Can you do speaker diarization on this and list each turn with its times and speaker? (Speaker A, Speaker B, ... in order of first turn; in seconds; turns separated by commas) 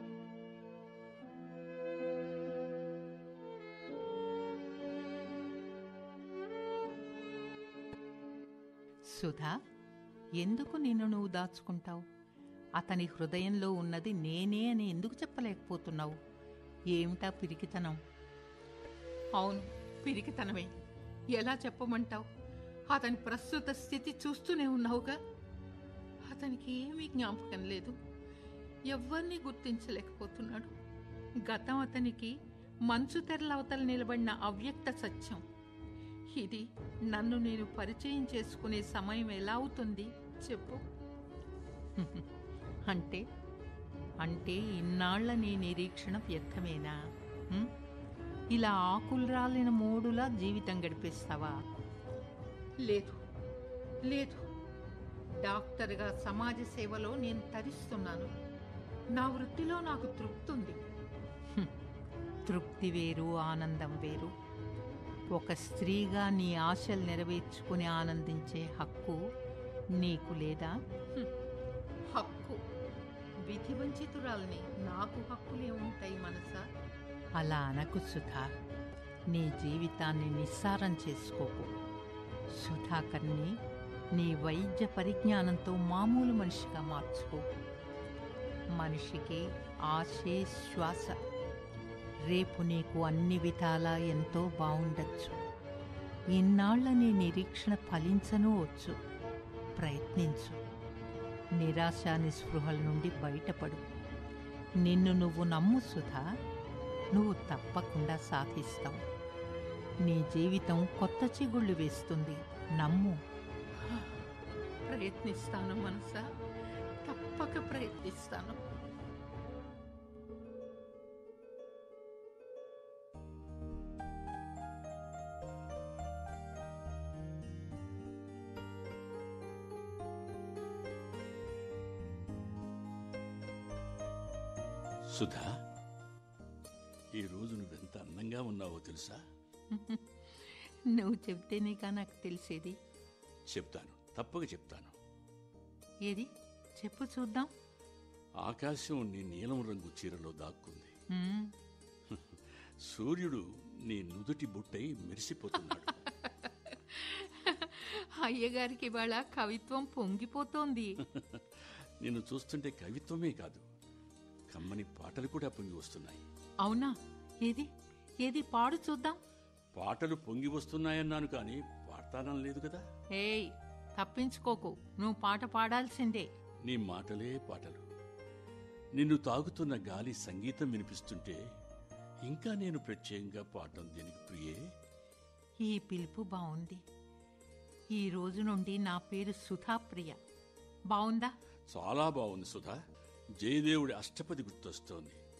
Speaker A: 9.1-9.6, Speaker A: 10.4-12.1, Speaker A: 12.8-16.2, Speaker A: 16.9-18.0, Speaker A: 19.4-20.7, Speaker A: 21.3-22.3, Speaker A: 22.9-25.2, Speaker A: 26.3-28.0, Speaker A: 28.9-30.7, Speaker A: 31.4-32.4, Speaker A: 32.9-35.4, Speaker A: 36.3-40.9, Speaker A: 42.0-42.3, Speaker A: 42.9-43.2, Speaker A: 44.2-47.0, Speaker A: 48.5-51.6, Speaker A: 52.8-53.2, Speaker A: 54.0-54.5, Speaker A: 55.4-58.3, Speaker A: 59.1-60.8, Speaker A: 62.5-64.3, Speaker A: 65.3-69.2, Speaker A: 69.9-71.3, Speaker A: 72.1-72.6, Speaker A: 73.4-76.7, Speaker A: 77.4-78.5, Speaker A: 79.3-81.7, Speaker A: 82.5-83.6, Speaker A: 84.1-87.5, Speaker A: 88.8-91.2, Speaker A: 92.3-95.4, Speaker A: 96.3-99.0, Speaker A: 99.8-100.6, Speaker A: 101.5-103.8, Speaker A: 104.8-106.2, Speaker A: 107.1-109.0, Speaker A: 110.0-113.2, Speaker A: 113.8-114.2, Speaker A: 114.9-116.3, Speaker A: 117.0-118.6, Speaker B: 135.1-135.6, Speaker B: 137.2-139.2, Speaker A: 139.7-142.8, Speaker B: 143.5-144.9, Speaker A: 146.1-147.5, Speaker B: 148.4-150.9, Speaker A: 151.1-151.5, Speaker B: 152.1-155.9, Speaker A: 155.9-161.0, Speaker B: 161.0-163.6, Speaker B: 164.5-166.2, Speaker A: 166.6-167.7, Speaker A: 168.2-169.2, Speaker B: 169.8-172.8, Speaker A: 173.2-176.3, Speaker B: 176.7-177.8, Speaker B: 179.0-181.4, Speaker B: 182.2-184.6, Speaker A: 185.7-186.8, Speaker A: 187.9-190.2, Speaker A: 190.9-191.3, Speaker B: 191.7-192.8, Speaker B: 193.4-195.2